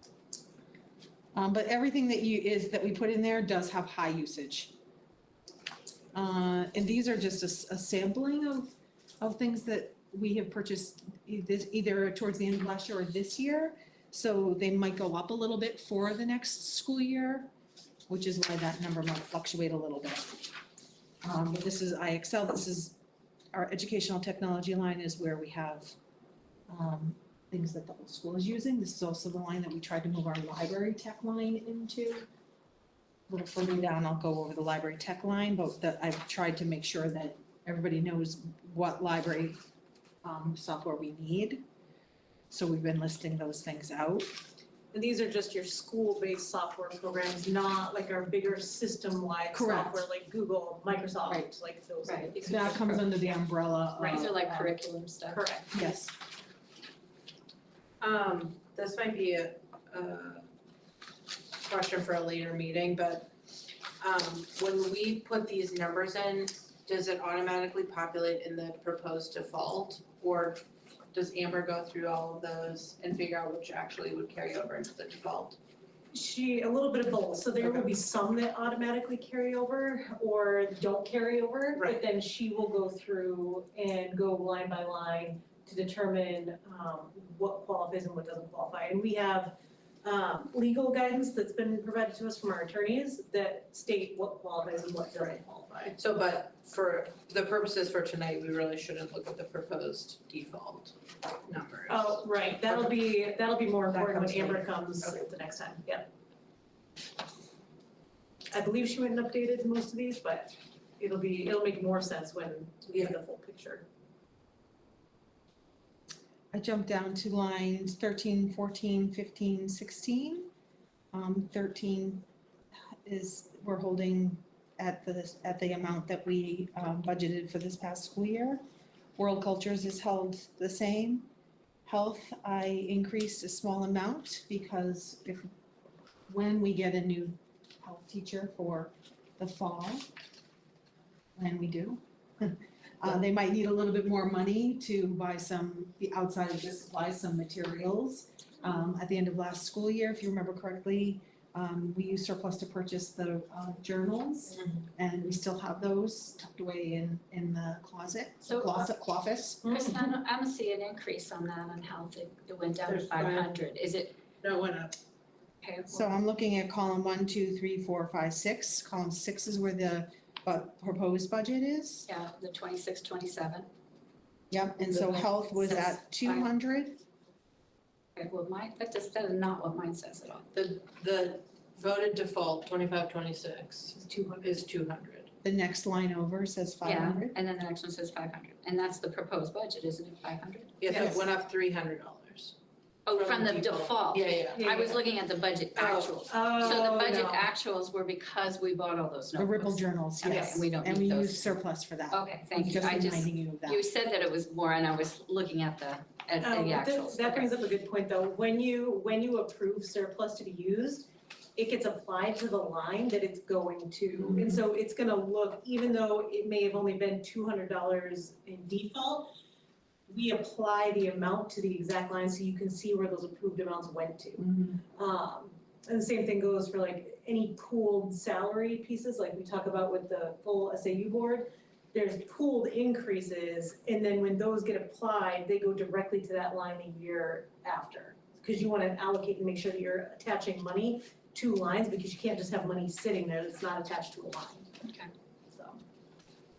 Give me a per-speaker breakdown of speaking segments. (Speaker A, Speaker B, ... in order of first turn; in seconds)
Speaker A: 1.3-4.7, 6.1-17.5, 18.1-20.5, 21.2-23.0, 23.5-25.9, 26.7-32.3, 33.3-39.6, 40.2-41.6, 42.5-44.3, 49.5-50.0, 52.4-54.7, 55.7-56.1, 116.5-120.5, 121.1-122.2, 123.0-128.6, 129.2-131.3, 131.8-135.5, 136.3-140.1, 141.3-159.8, 165.9-172.1, 174.5-177.0, 185.4-187.4, 199.4-203.8, 224.5-224.7
Speaker B: 44.9-53.0, 55.3-55.8, 76.1-96.0, 101.9-106.1, 108.5-113.8, 159.6-160.0, 183.9-184.6, 194.5-194.9, 196.2-197.5, 206.4-219.3, 220.1-244.7, 245.5-245.8
Speaker C: 52.0-52.9, 54.0-55.5, 158.4-158.9, 159.6-164.2, 165.6-166.1, 172.1-173.7, 174.9-176.5, 178.2-180.5, 186.8-191.1, 193.1-201.5, 202.1-207.5, 244.8-245.1
Speaker D: 58.0-60.4, 61.5-63.3, 64.0-75.6, 96.0-102.9, 103.9-105.2, 162.8-163.5, 164.4-164.9, 180.5-185.3, 190.8-192.6, 193.1-194.8, 195.8-196.2